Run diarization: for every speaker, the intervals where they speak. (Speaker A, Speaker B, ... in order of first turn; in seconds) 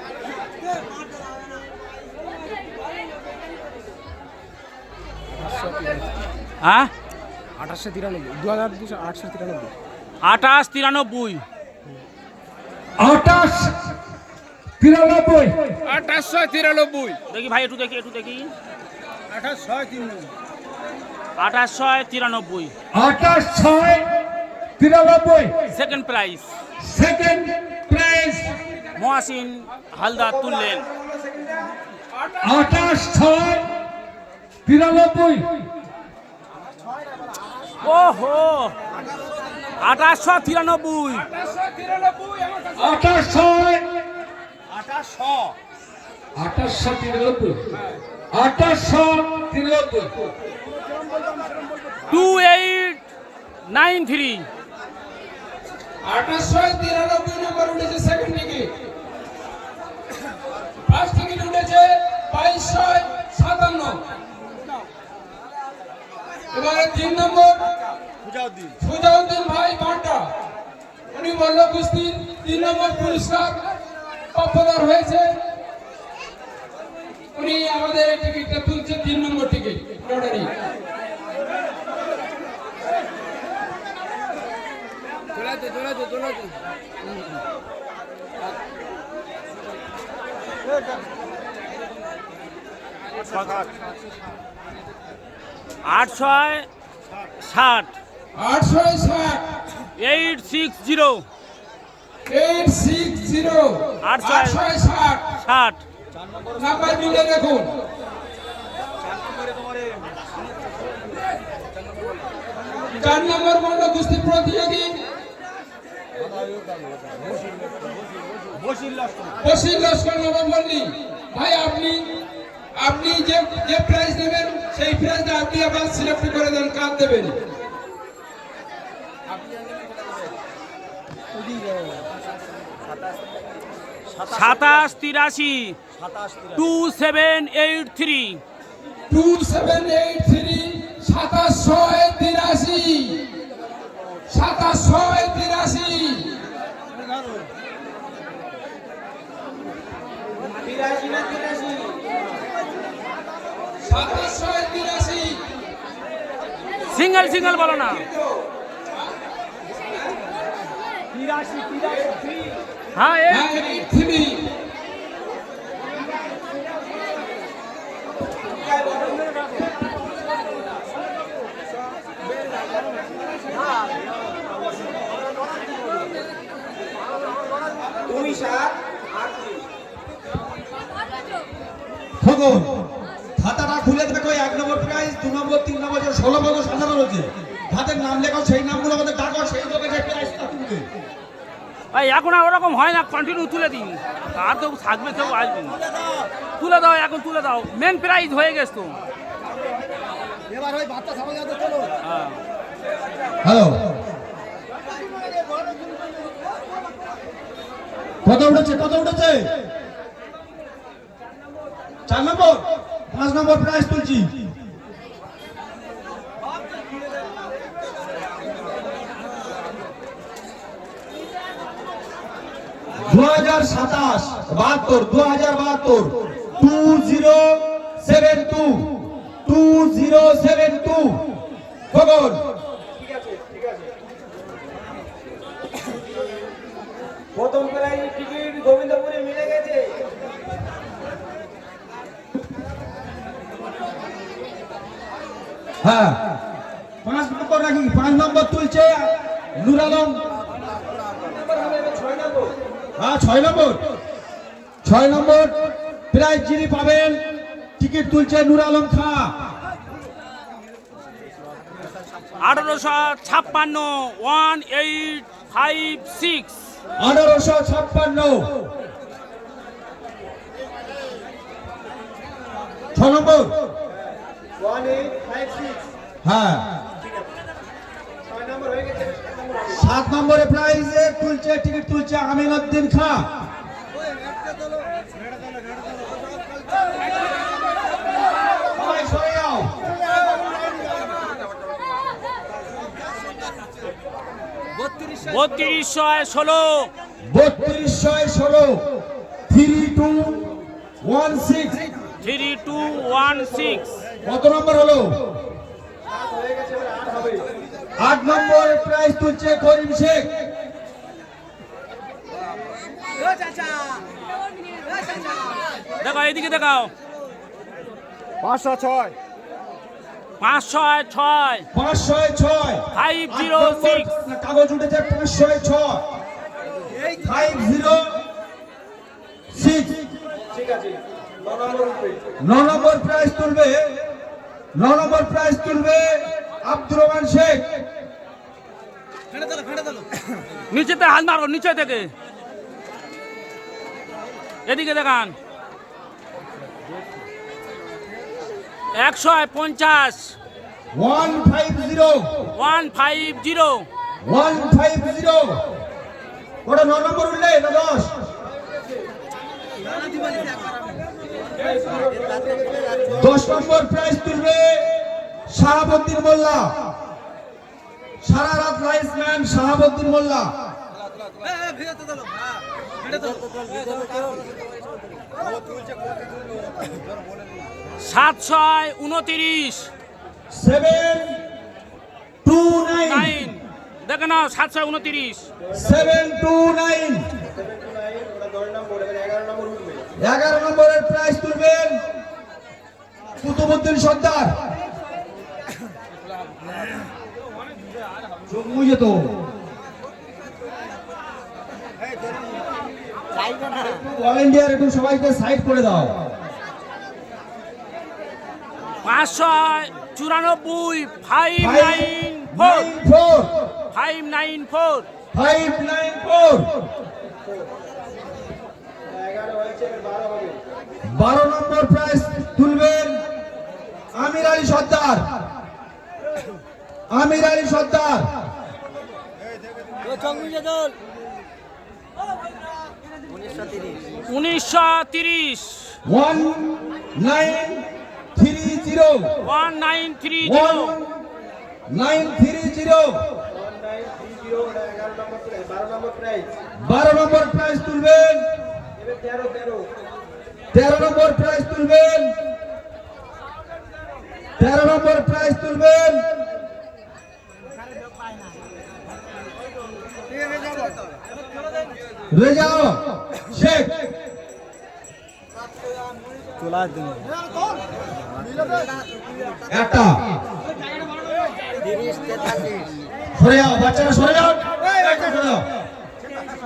Speaker A: 6.6-6.9, 10.2-11.4, 17.3-18.5, 21.4-22.7, 25.7-26.5, 28.9-30.8, 37.8-38.7, 39.8-41.2, 52.1-53.0, 53.7-54.5, 93.3-93.7, 95.8-96.7, 97.4-97.9, 100.0-101.2, 104.0-104.6, 105.4-105.8, 134.3-135.8, 136.5-138.4, 156.9-158.1, 162.9-163.5, 191.9-195.8, 196.6-199.0, 202.0-202.4, 262.4-266.6, 295.2-296.9, 302.2-303.9, 316.0-316.9, 320.4-321.6, 322.9-324.1, 340.7-342.1, 344.6-345.3, 348.9-350.3, 352.5-353.9, 378.0-379.9, 383.0-385.5, 409.0-412.9, 413.9-415.1, 434.3-435.9, 439.4-440.9
Speaker B: 7.7-9.3, 15.8-17.2, 32.2-32.9, 41.2-43.0, 56.0-58.7, 60.9-64.0, 66.5-67.7, 68.8-70.3, 71.1-73.6, 74.3-75.3, 77.3-80.5, 98.3-99.4, 102.3-105.3, 106.6-107.7, 113.0-115.0, 119.4-122.1, 122.8-127.3, 139.1-143.2, 144.3-146.3, 153.8-155.4, 163.3-164.5
Speaker C: 13.0-13.7, 14.8-15.8, 22.9-24.1, 24.8-25.6, 26.8-28.5, 32.4-33.7, 34.6-35.6, 42.8-43.9, 46.4-47.6, 48.3-50.2
Speaker D: 30.4-31.6, 150.6-152.2, 157.6-158.4, 161.2-162.4, 168.6-169.3, 178.0-179.6, 232.9-233.9, 237.3-240.0, 251.2-252.6, 273.9-275.8, 278.2-279.9, 303.0-303.8, 306.1-307.5, 330.5-332.4, 361.5-363.4, 385.6-386.2, 387.5-390.1, 419.1-420.6, 443.5-446.5, 448.9-449.9
Speaker E: 134.1-134.8, 136.0-136.6, 200.5-201.9, 318.5-319.1, 361.9-363.6, 373.1-374.5, 403.3-404.1, 430.0-431.0, 433.3-434.2, 466.6-467.3, 471.8-472.9
Speaker F: 182.2-182.8, 183.4-190.9, 203.4-203.9, 208.2-209.5, 212.1-214.5, 223.0-231.3, 231.9-232.4, 245.8-246.3, 247.0-250.2, 253.0-253.8, 254.8-257.2, 257.8-259.4, 267.0-268.6, 272.9-273.6, 276.2-276.7, 279.7-283.3, 288.7-289.8, 297.3-298.8, 299.5-300.4, 301.0-301.8, 304.2-305.2, 308.0-310.3, 321.7-326.0, 327.2-328.2, 329.5-330.0, 332.4-334.0, 334.7-337.8, 350.9-352.5, 354.2-355.6, 356.6-358.2, 363.1-364.9, 365.5-366.9, 368.2-370.5, 380.5-381.4, 382.4-383.5, 385.7-387.3, 390.2-392.0, 393.4-394.6, 398.5-399.3, 403.7-406.2, 411.6-413.6, 415.3-416.9, 421.1-423.2, 424.2-425.4, 427.1-428.3, 436.1-439.3, 440.4-441.1, 441.9-443.2, 446.8-448.5, 450.7-452.3, 454.6-456.3, 462.3-464.0, 469.7-470.2, 473.3-475.7